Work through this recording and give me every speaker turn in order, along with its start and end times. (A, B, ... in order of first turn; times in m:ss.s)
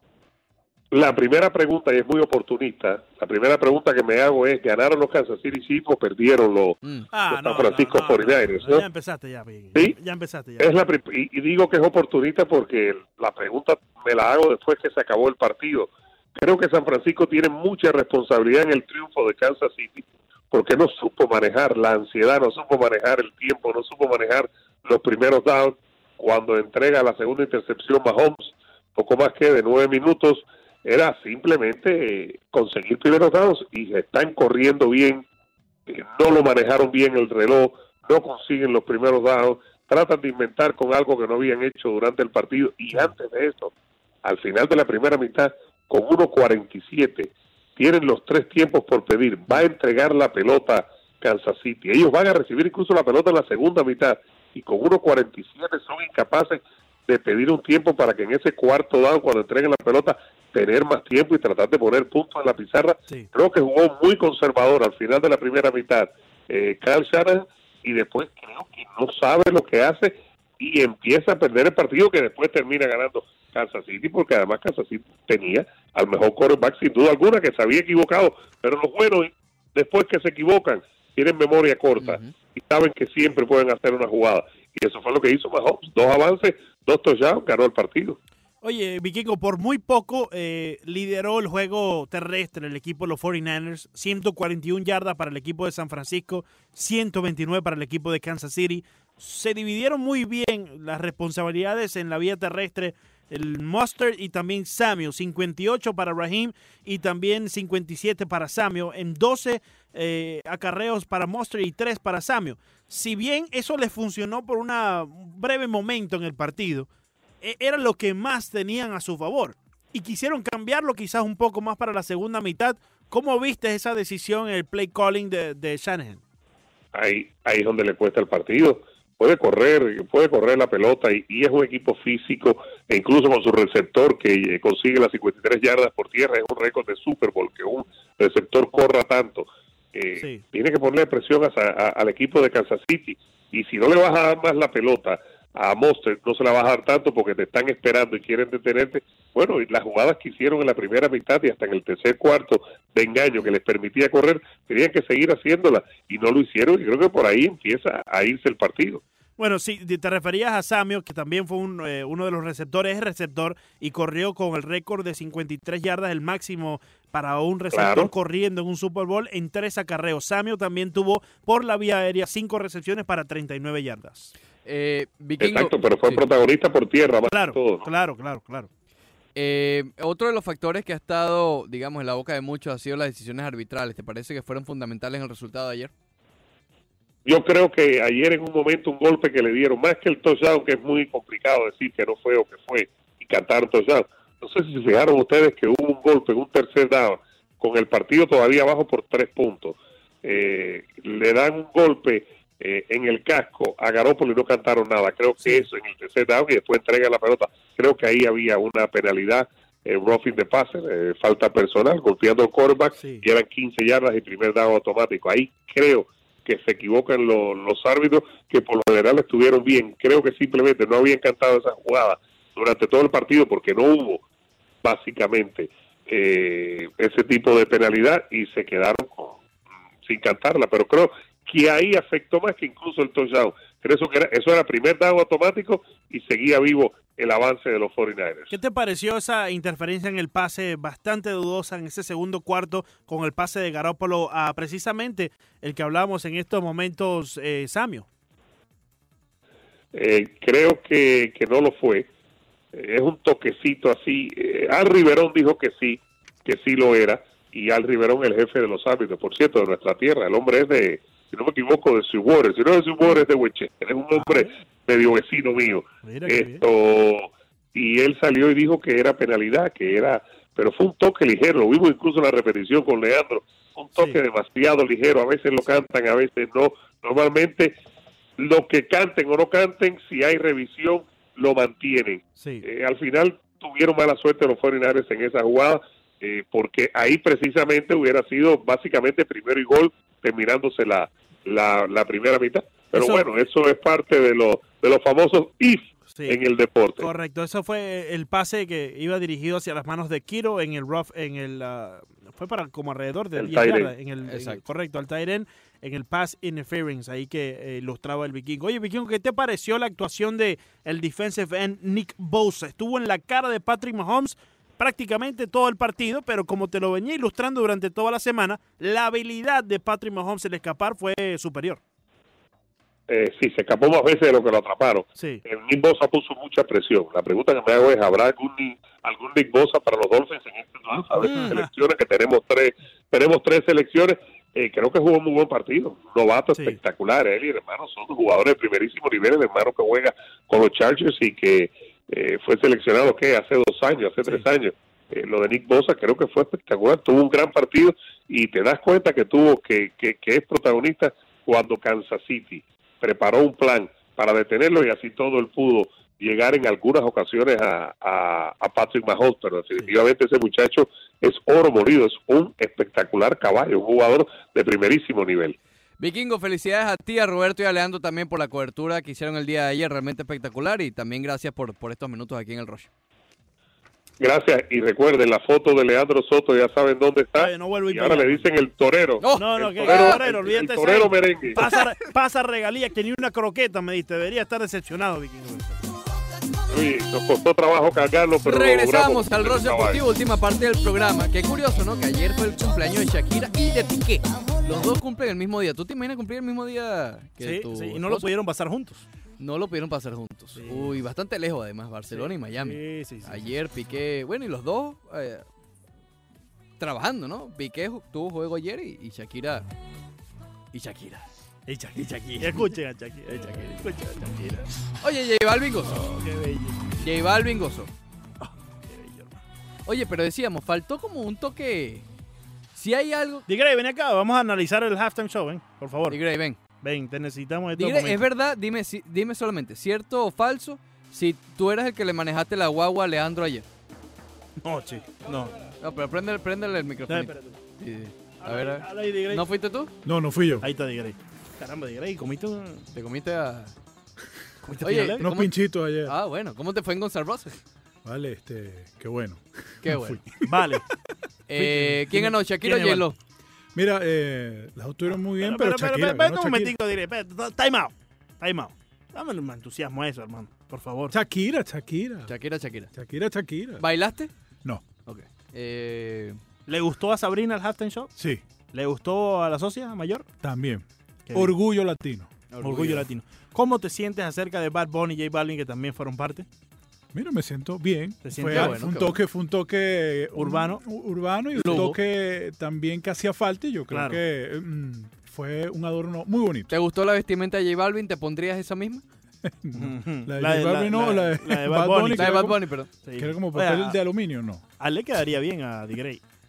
0:00.9-0:06.8 A
0:07.1-0:10.7 B
0:07.3-0:08.8 A
0:10.6-0:35.2 A
0:35.9-0:43.7 A
0:44.2-1:28.2 A
1:22.0-1:22.3 C
1:28.6-1:56.9 B
1:57.4-2:06.2 B
2:06.9-2:39.0 A
2:39.4-2:54.3 B
2:47.7-2:48.1 A
2:54.6-2:56.2 C
2:55.4-2:57.9 A
2:57.3-2:58.7 B
2:59.4-3:05.9 C
3:07.3-3:44.2 A
3:33.0-3:33.2 B
3:44.8-3:49.4 A
3:50.1-3:58.5 A
3:58.5-4:08.1 B
4:09.9-4:12.1 A
4:12.7-4:37.8 A
4:24.2-4:24.5 B
4:26.0-4:26.6 B
4:38.4-4:57.1 A
4:42.4-4:42.7 B
4:52.9-4:53.3 B
4:56.1-4:56.4 B
4:57.0-5:21.8 B
5:03.4-5:03.9 A
5:04.2-5:04.6 C
5:23.1-6:05.6 A
5:25.2-5:25.4 B
5:31.2-5:31.7 B
5:36.5-5:36.8 B
6:06.0-6:12.9 C
6:14.2-6:21.6 A
6:17.4-6:18.5 B
6:19.2-6:20.2 C
6:19.4-6:25.9 B
6:21.6-6:21.9 C
6:26.7-6:30.0 A
6:28.4-6:38.3 C
6:37.4-6:39.0 B
6:39.4-6:45.4 C
6:40.6-6:41.0 B
6:42.1-6:43.5 B
6:46.8-6:49.7 C
6:50.7-6:51.2 C
6:51.7-6:54.7 B
6:52.0-6:52.7 C
6:53.3-6:53.8 C
6:55.0-6:56.2 C
6:56.1-6:56.8 B
6:57.0-6:57.9 C
6:58.4-6:59.4 B
6:59.9-7:02.0 C
7:02.7-7:03.5 C
7:03.5-7:06.2 B
7:06.1-7:06.6 C
7:06.8-7:08.2 B
7:07.8-7:13.7 C
7:14.6-7:15.5 B
7:15.8-7:19.9 C
7:17.1-7:17.6 B
7:18.4-7:19.4 B
7:20.0-7:20.7 D
7:20.6-7:22.9 B
7:22.9-7:23.7 C
7:24.6-7:25.3 B
7:24.8-7:27.6 C
7:25.2-7:26.2 D
7:28.0-7:30.8 D
7:29.8-7:30.2 C
7:30.4-7:30.9 B
7:31.5-7:33.2 C
7:31.6-7:33.1 B
7:33.7-7:36.8 D
7:35.4-7:41.2 B
7:41.1-7:42.3 D
7:42.3-7:42.9 C
7:43.0-7:43.8 D
7:43.8-7:44.3 C
7:45.0-7:46.4 C
7:46.7-7:48.1 B
7:48.2-7:48.4 D
7:48.7-7:50.3 B
7:50.4-7:52.3 D
7:51.3-7:51.6 B
7:52.5-7:53.1 C
7:52.6-7:56.5 B
7:57.1-8:06.7 D
7:58.2-7:58.9 B
7:58.5-7:59.2 C
8:00.4-8:00.8 B
8:01.6-8:02.0 C
8:01.6-8:01.9 B
8:03.9-8:04.2 B
8:06.7-8:09.0 C
8:09.4-8:14.6 D
8:09.7-8:12.5 B
8:12.1-8:12.9 C
8:13.0-8:14.0 B
8:14.8-8:16.2 B